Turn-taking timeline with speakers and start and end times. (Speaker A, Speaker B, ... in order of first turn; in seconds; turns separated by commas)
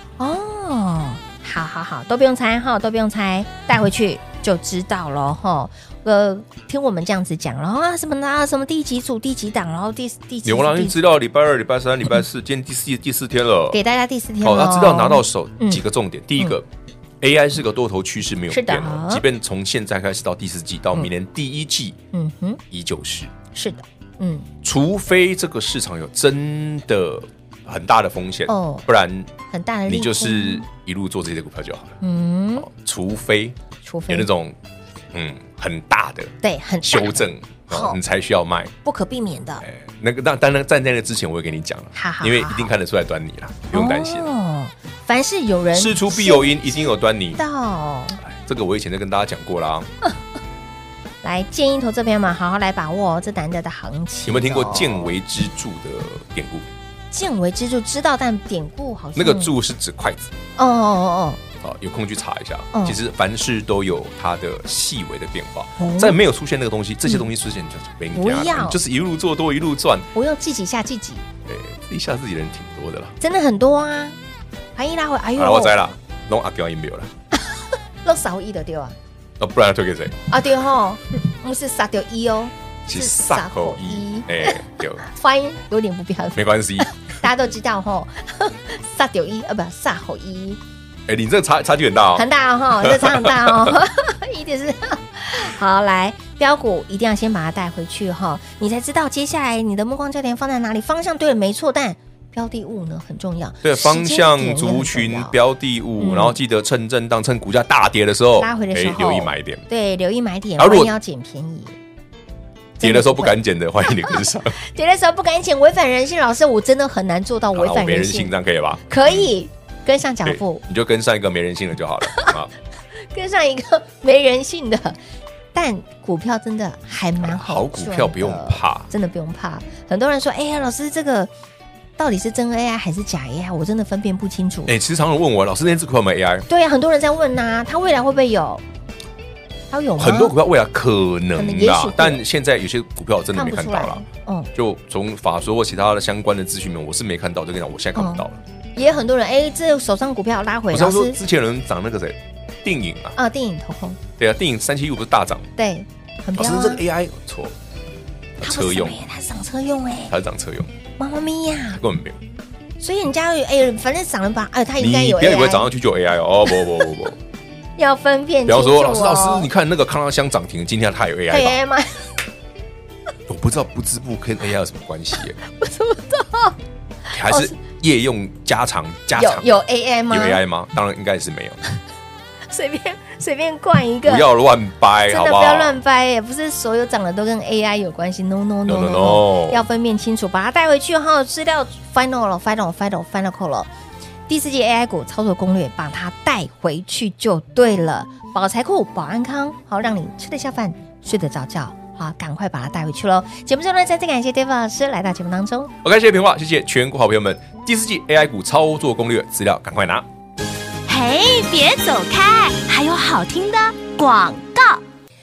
Speaker A: 0.2-11.0, Speaker B: 10.4-13.8, Speaker A: 13.7-15.8, Speaker B: 14.4-16.7, Speaker B: 17.2-22.0, Speaker A: 18.5-19.2, Speaker A: 22.1-22.6, Speaker B: 22.7-23.3, Speaker A: 23.5-24.5, Speaker B: 24.6-29.3, Speaker A: 28.5-28.9, Speaker A: 29.5-30.6, Speaker B: 29.9-32.0, Speaker A: 32.0-32.7, Speaker B: 32.6-33.6, Speaker A: 33.8-34.3, Speaker B: 34.1-34.6, Speaker B: 35.1-38.7, Speaker A: 36.4-38.0, Speaker A: 38.8-39.6, Speaker B: 39.6-44.3, Speaker A: 41.9-42.7, Speaker A: 43.7-48.2, Speaker B: 45.7-47.4, Speaker B: 48.2-49.9, Speaker A: 51.2-55.1, Speaker B: 54.3-56.7, Speaker A: 57.1-59.5, Speaker B: 59.2-60.3, Speaker A: 60.6-61.4, Speaker B: 61.6-70.1, Speaker A: 65.8-66.2, Speaker A: 68.1-68.8, Speaker A: 70.2-71.2, Speaker B: 71.5-73.2, Speaker A: 73.2-74.2, Speaker A: 74.8-75.8, Speaker B: 75.4-77.1, Speaker A: 77.5-79.0, Speaker B: 79.4-80.2, Speaker A: 80.3-90.6, Speaker B: 82.9-85.1, Speaker B: 86.3-86.9, Speaker B: 91.1-92.3, Speaker A: 92.2-105.4, Speaker B: 92.8-93.7, Speaker B: 103.6-109.7, Speaker A: 106.0-106.4, Speaker A: 108.4-111.8, Speaker B: 110.6-110.9, Speaker A: 112.8-113.4, Speaker B: 112.8-114.6, Speaker A: 114.0-118.3, Speaker B: 117.5-119.3, Speaker A: 118.9-120.6, Speaker B: 120.2-122.5, Speaker A: 122.1-122.3, Speaker A: 123.1-125.0, Speaker A: 125.5-131.3, Speaker B: 127.2-128.9, Speaker A: 132.0-134.7, Speaker B: 134.7-136.5, Speaker A: 136.5-138.6, Speaker A: 139.7-140.3, Speaker B: 140.0-144.0, Speaker A: 141.4-142.2, Speaker A: 143.3-144.5, Speaker B: 144.6-148.4, Speaker A: 148.0-148.2, Speaker A: 148.8-151.2, Speaker B: 150.7-153.2, Speaker A: 153.2-154.0, Speaker B: 154.2-155.5, Speaker A: 155.6-156.8, Speaker B: 156.4-157.6, Speaker B: 158.4-159.0, Speaker A: 158.4-160.1, Speaker B: 160.1-160.7, Speaker A: 161.0-161.8, Speaker B: 161.8-162.2, Speaker A: 162.8-165.7, Speaker B: 164.8-167.2, Speaker A: 167.8-169.5, Speaker B: 168.5-171.6, Speaker A: 171.3-172.1, Speaker B: 173.3-175.4, Speaker A: 175.4-176.6, Speaker B: 177.1-181.6, Speaker A: 177.2-177.5, Speaker A: 179.2-180.4, Speaker A: 182.5-184.3, Speaker B: 184.1-185.8, Speaker A: 185.1-193.7, Speaker B: 188.7-189.6, Speaker A: 194.3-205.7, Speaker B: 205.8-210.1, Speaker C: 210.9-214.8